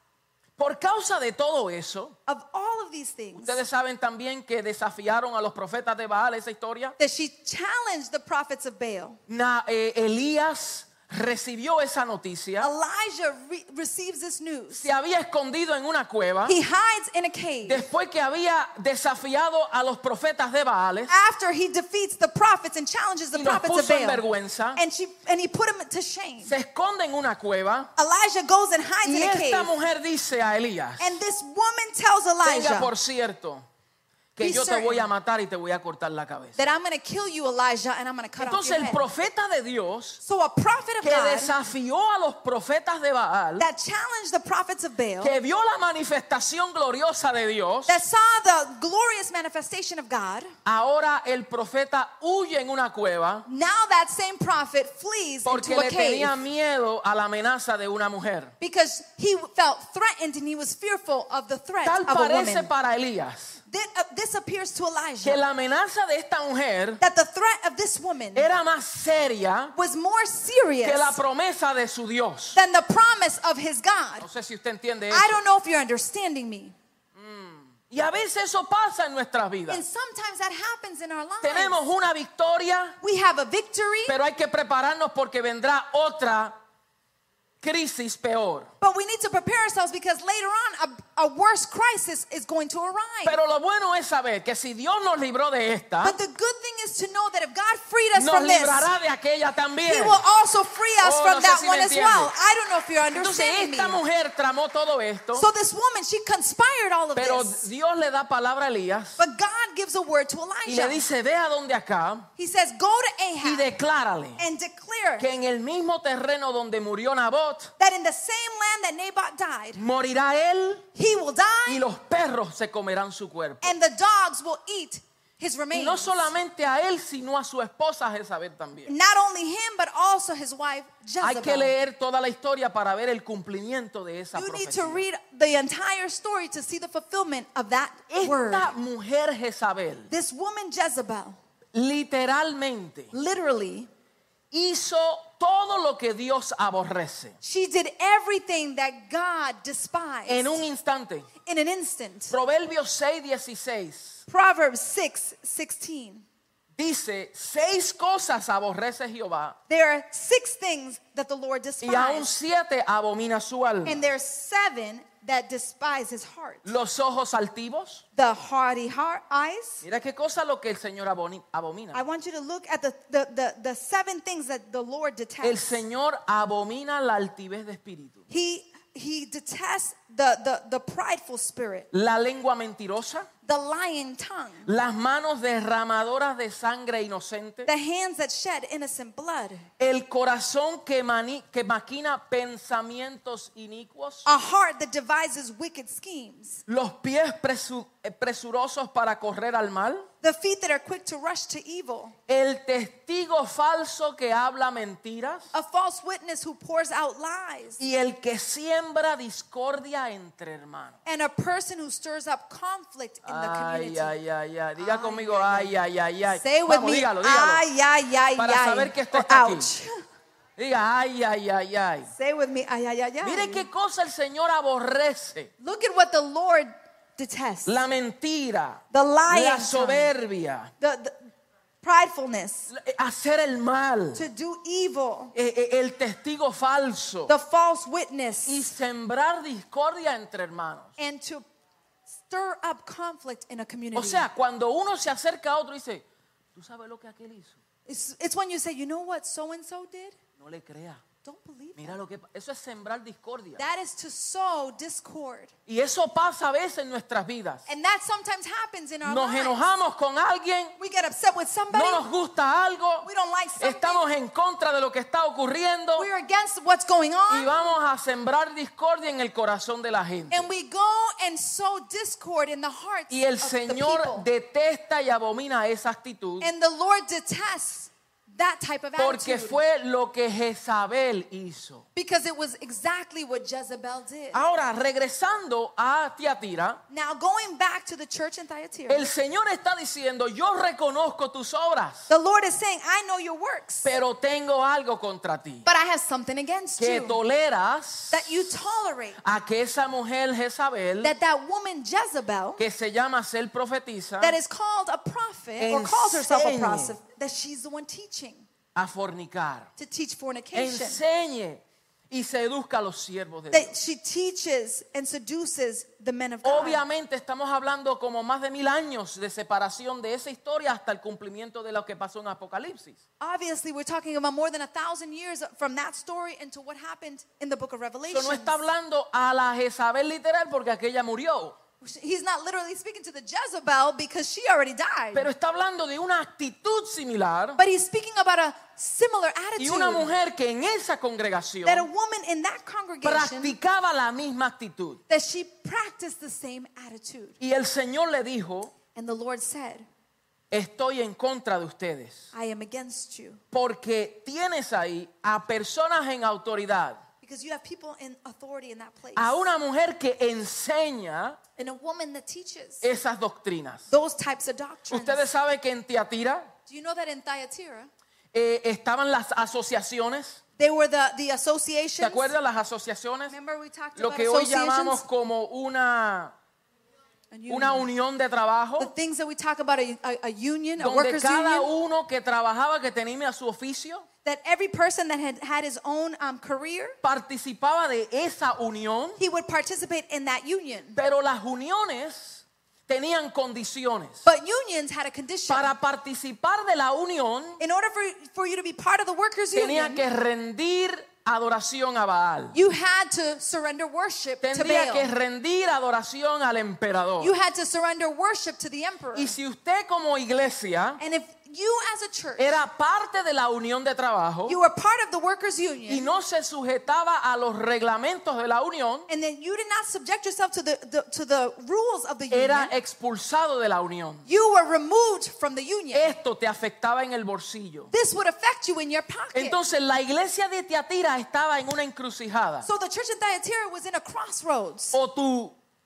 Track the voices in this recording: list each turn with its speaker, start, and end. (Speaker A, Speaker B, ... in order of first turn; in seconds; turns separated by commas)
Speaker A: 0.6-2.1, Speaker B: 2.3-3.6, Speaker A: 3.3-7.0, Speaker B: 7.0-9.2, Speaker A: 9.3-12.7, Speaker B: 12.6-14.9, Speaker A: 14.7-16.6, Speaker B: 16.4-17.9, Speaker A: 17.6-21.1, Speaker B: 21.1-26.6, Speaker A: 23.3-24.8, Speaker A: 26.4-27.9, Speaker B: 27.9-29.7, Speaker A: 29.0-31.2, Speaker B: 31.0-32.9, Speaker A: 32.4-33.6, Speaker A: 34.3-36.6, Speaker B: 34.4-35.1, Speaker B: 36.6-39.0, Speaker A: 38.4-40.2, Speaker B: 40.2-41.5, Speaker A: 41.0-43.7, Speaker B: 43.6-45.4, Speaker A: 45.2-48.0, Speaker B: 47.9-50.5, Speaker A: 50.6-53.5, Speaker B: 53.5-56.4, Speaker A: 55.4-58.5, Speaker B: 58.6-62.7, Speaker A: 61.8-63.6, Speaker B: 63.7-65.4, Speaker A: 65.2-67.0, Speaker B: 67.0-68.5, Speaker A: 68.3-69.7, Speaker B: 69.7-71.2, Speaker A: 70.8-72.6, Speaker B: 72.5-74.3, Speaker A: 74.2-75.4, Speaker B: 75.1-76.8, Speaker A: 77.1-79.8, Speaker B: 79.7-81.8, Speaker A: 81.4-83.0, Speaker B: 83.0-84.2, Speaker A: 84.1-86.5, Speaker A: 87.6-88.7, Speaker B: 88.8-93.4, Speaker A: 93.2-96.2, Speaker B: 96.0-98.9, Speaker A: 98.1-100.2, Speaker B: 99.9-104.0, Speaker A: 101.0-102.3, Speaker A: 103.1-105.5, Speaker B: 105.3-107.7, Speaker A: 107.2-109.2, Speaker B: 109.2-111.0, Speaker A: 110.7-112.3, Speaker B: 112.4-113.7, Speaker A: 113.4-114.4, Speaker B: 114.4-115.3, Speaker A: 115.2-117.7, Speaker B: 117.8-119.8, Speaker A: 119.7-120.9, Speaker B: 120.9-121.8, Speaker A: 121.7-123.7, Speaker B: 123.6-126.3, Speaker A: 125.7-128.9, Speaker B: 128.8-131.8, Speaker A: 131.2-135.0, Speaker B: 134.3-138.7, Speaker A: 138.1-140.1, Speaker B: 140.1-141.4, Speaker A: 141.7-143.1, Speaker B: 143.1-143.9, Speaker A: 144.5-147.3, Speaker B: 147.4-150.7, Speaker A: 150.3-151.3, Speaker B: 151.4-152.3, Speaker A: 152.3-154.2, Speaker B: 154.3-156.2, Speaker A: 156.8-159.6, Speaker B: 159.7-162.3, Speaker A: 161.8-164.1, Speaker B: 163.8-166.7, Speaker A: 166.6-168.0, Speaker B: 168.2-169.8, Speaker A: 169.8-172.0, Speaker B: 171.9-175.8, Speaker A: 175.4-178.2, Speaker B: 178.3-181.9, Speaker A: 181.9-183.3, Speaker B: 183.4-184.7, Speaker A: 184.7-187.7, Speaker B: 187.7-189.7, Speaker A: 189.8-194.3, Speaker B: 194.2-196.6, Speaker A: 196.7-200.1, Speaker B: 200.2-202.2, Speaker A: 202.3-205.5, Speaker B: 205.5-207.8, Speaker A: 207.8-211.0, Speaker B: 211.0-214.1, Speaker A: 213.2-217.6, Speaker B: 214.8-220.0, Speaker A: 218.4-219.7, Speaker A: 220.6-222.1, Speaker B: 222.1-223.7, Speaker A: 223.2-225.5, Speaker B: 225.6-227.8, Speaker A: 227.7-230.7, Speaker B: 228.9-230.1, Speaker B: 230.8-231.3, Speaker B: 231.8-232.7, Speaker A: 232.7-234.2, Speaker B: 234.1-235.3, Speaker A: 235.3-237.3, Speaker B: 237.3-238.7, Speaker A: 238.4-240.9, Speaker B: 241.0-241.4, Speaker B: 242.1-244.3, Speaker A: 243.9-247.6, Speaker B: 247.8-250.2, Speaker A: 250.4-251.0, Speaker B: 251.2-252.0, Speaker A: 251.8-253.6, Speaker B: 253.6-255.5, Speaker A: 255.7-257.6, Speaker B: 257.7-259.7, Speaker A: 259.0-260.8, Speaker B: 260.8-262.1, Speaker A: 261.7-263.1, Speaker B: 263.0-264.1, Speaker A: 263.6-266.1, Speaker B: 265.9-267.6, Speaker A: 267.3-270.5, Speaker B: 270.3-274.3, Speaker A: 273.1-276.5, Speaker B: 276.4-279.6, Speaker A: 279.0-281.9, Speaker B: 281.9-284.4, Speaker A: 284.3-286.8, Speaker B: 286.9-289.1, Speaker A: 288.9-292.1, Speaker B: 292.1-293.9, Speaker A: 293.8-295.6, Speaker B: 295.6-297.2, Speaker A: 296.8-298.6, Speaker B: 298.1-299.2, Speaker A: 299.2-301.1, Speaker B: 301.0-302.6, Speaker A: 302.6-304.4, Speaker B: 304.2-308.4, Speaker A: 305.6-307.0, Speaker A: 308.7-309.7, Speaker B: 309.8-311.0, Speaker A: 310.5-313.7, Speaker B: 313.5-316.8, Speaker A: 316.4-323.0, Speaker B: 323.2-328.6, Speaker A: 328.1-331.6, Speaker B: 331.8-335.3, Speaker A: 335.1-337.6, Speaker B: 337.6-340.1, Speaker A: 339.6-341.9, Speaker B: 341.6-343.6, Speaker A: 343.0-345.0, Speaker B: 345.1-347.4, Speaker A: 347.4-348.7, Speaker B: 348.9-349.9, Speaker A: 350.5-352.3, Speaker B: 352.3-353.4, Speaker A: 353.5-357.0, Speaker B: 357.2-359.4, Speaker A: 359.1-361.4, Speaker B: 361.6-362.9, Speaker A: 362.8-363.9, Speaker B: 363.9-365.3, Speaker A: 364.9-366.5, Speaker B: 366.7-367.9, Speaker A: 368.3-370.4, Speaker B: 370.6-372.3, Speaker A: 372.0-373.3, Speaker B: 373.3-375.0, Speaker A: 373.9-376.3, Speaker B: 377.3-377.9, Speaker A: 377.5-378.9, Speaker B: 378.8-381.7, Speaker A: 380.8-384.1, Speaker B: 384.2-387.0, Speaker A: 387.0-389.2, Speaker B: 389.2-391.0, Speaker A: 390.9-394.2, Speaker B: 394.2-395.7, Speaker A: 395.5-397.6, Speaker B: 397.6-400.1, Speaker A: 399.5-402.6, Speaker B: 402.5-405.1, Speaker A: 404.4-407.3, Speaker B: 407.2-409.3, Speaker A: 409.1-411.0, Speaker B: 411.0-412.6, Speaker A: 412.4-414.6, Speaker B: 414.4-416.1, Speaker A: 415.9-419.1, Speaker B: 419.1-422.7, Speaker A: 422.3-424.2, Speaker B: 424.2-426.1, Speaker A: 425.9-427.9, Speaker B: 427.9-429.6, Speaker A: 429.3-432.7, Speaker B: 432.6-435.0, Speaker A: 434.9-435.6